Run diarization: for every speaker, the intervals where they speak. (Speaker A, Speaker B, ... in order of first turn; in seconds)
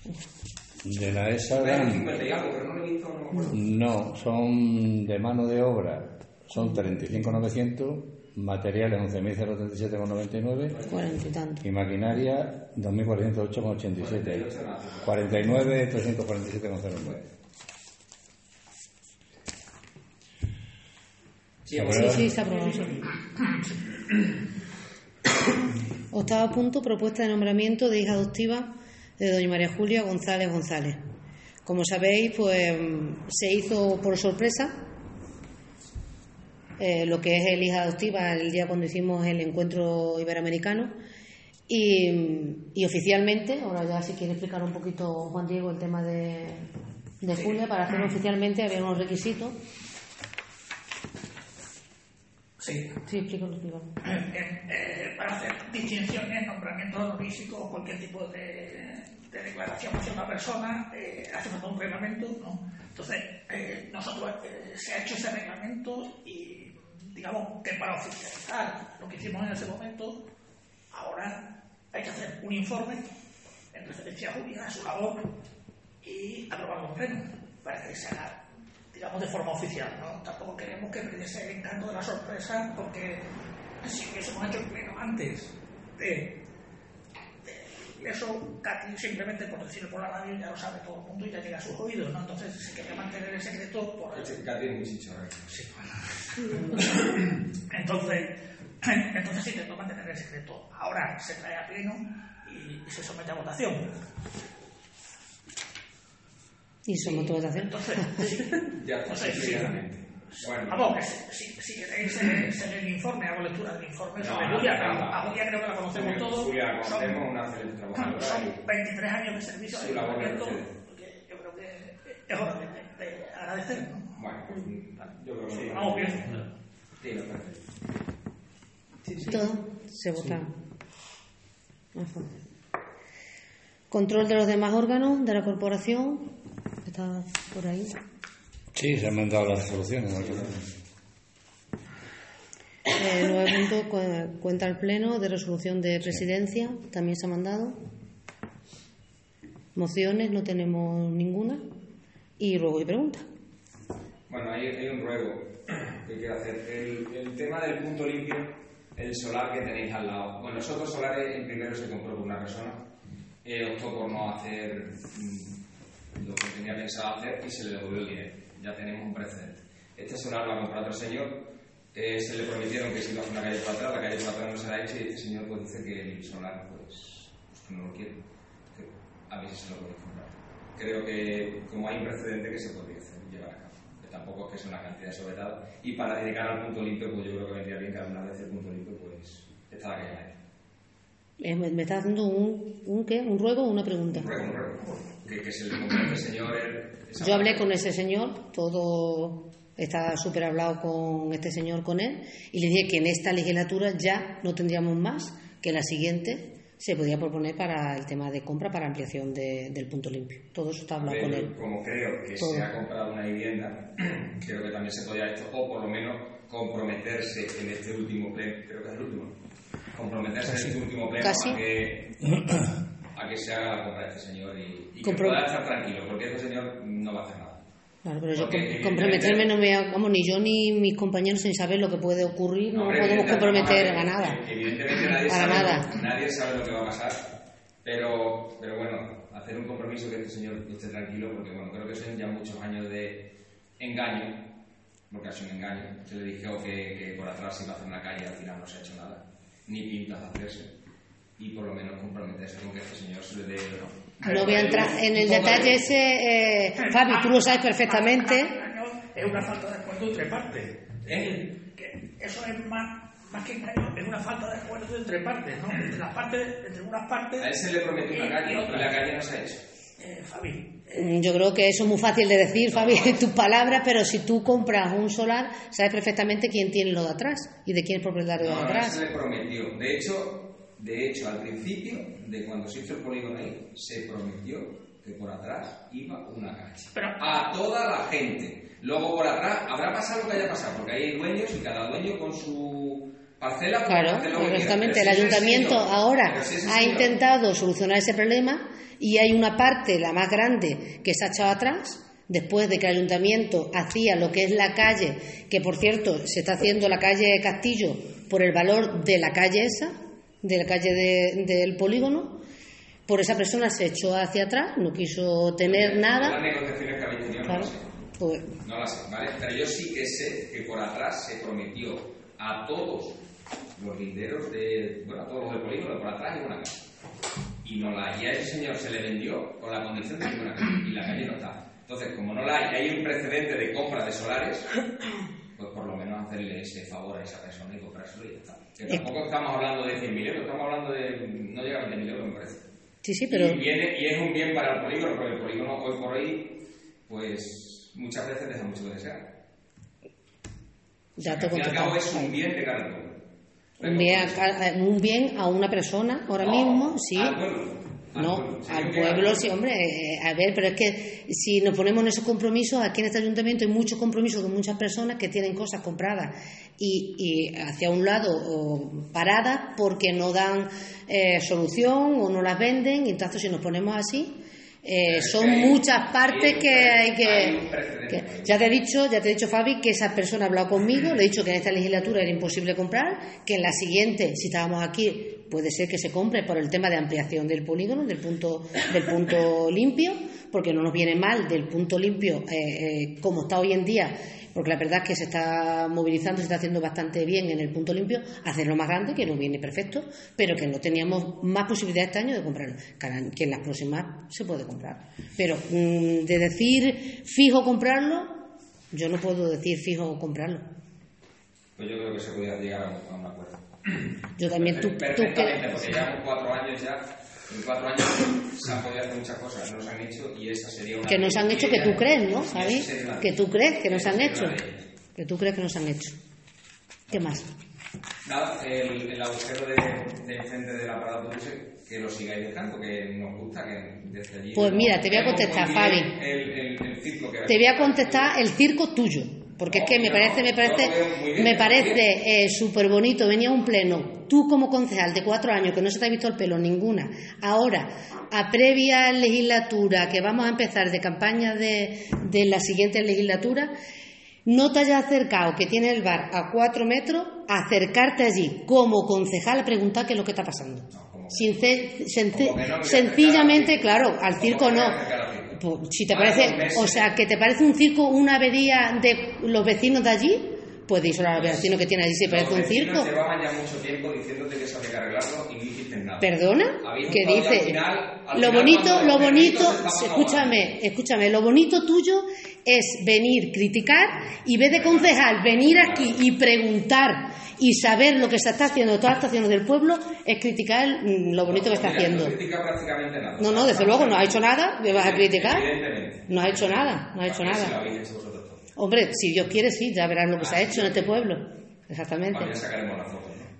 Speaker A: 0.8-2.1, 3.5-10.8, 11.6-14.4, 15.0-17.2, 21.7-22.4, 138.7-140.6, 222.4-222.7
Speaker B: 1.5-3.6, 10.7-11.0, 13.9-15.2, 21.6-22.3, 94.1-95.5, 108.8-110.9, 114.2-115.4, 115.9-118.6, 119.7-120.7, 124.2-126.4, 127.0-127.6, 154.3-162.8, 163.4-165.6, 166.2-171.4, 171.9-178.2, 178.7-190.3, 194.1-197.7, 211.0-219.3, 219.9-222.4, 223.1-227.6, 228.3-229.5, 232.7-237.2, 237.8-243.2, 243.8-244.4, 245.1-250.7, 251.4-255.8, 261.1-261.4, 267.4-269.6, 272.7-273.2, 278.4-297.1, 315.6-317.9, 318.6-323.2, 323.8-326.8, 327.6-334.8, 335.6-342.6, 343.3-349.3, 351.2-353.1, 353.8-354.4, 356.4-359.5, 375.0-378.6, 411.8-424.9, 427.1-427.4, 428.2-438.3, 439.6-442.0, 460.9-461.5, 462.3-465.6, 466.1-467.1, 471.3-476.3, 476.8-480.7, 484.7-486.2, 491.4-498.6, 500.4-501.2, 502.3-503.5
Speaker C: 6.5-7.4, 10.9-11.6, 21.8-23.0, 26.1-31.0, 31.6-34.7, 36.8-40.9, 41.7-46.7, 47.2-49.5, 53.0-53.9, 106.8-108.2, 129.2-130.5, 131.9-132.3, 133.9-136.3, 136.8-138.0, 142.9-147.8, 149.7-151.6, 152.4-153.2, 191.4-194.3, 197.2-211.5, 212.4-212.7, 221.2-221.6, 225.0-225.4, 228.0-234.4, 235.2-236.0, 254.2-258.6, 270.9-279.0, 293.9-312.4, 313.1-316.4, 317.4-318.5, 343.0-343.6, 351.2-352.3, 353.8-357.4, 358.1-410.6, 414.4-415.8, 421.1-424.6, 425.1-426.1, 427.1-427.5, 434.5-436.1, 437.4-453.7, 454.4-465.0, 465.5-473.1, 476.2-492.3, 493.4-495.7, 496.3-497.8, 498.8-502.5
Speaker D: 22.7-23.0, 52.6-52.9, 54.0-70.1, 70.9-71.3, 71.9-73.0, 73.7-75.2, 76.0-78.4, 78.9-83.2, 83.8-86.3, 87.4-94.3, 95.5-98.3, 98.8-104.0, 107.0-109.7, 110.4-117.2, 117.9-124.1, 125.6-126.4, 254.3-255.2, 256.8-269.0, 270.0-270.7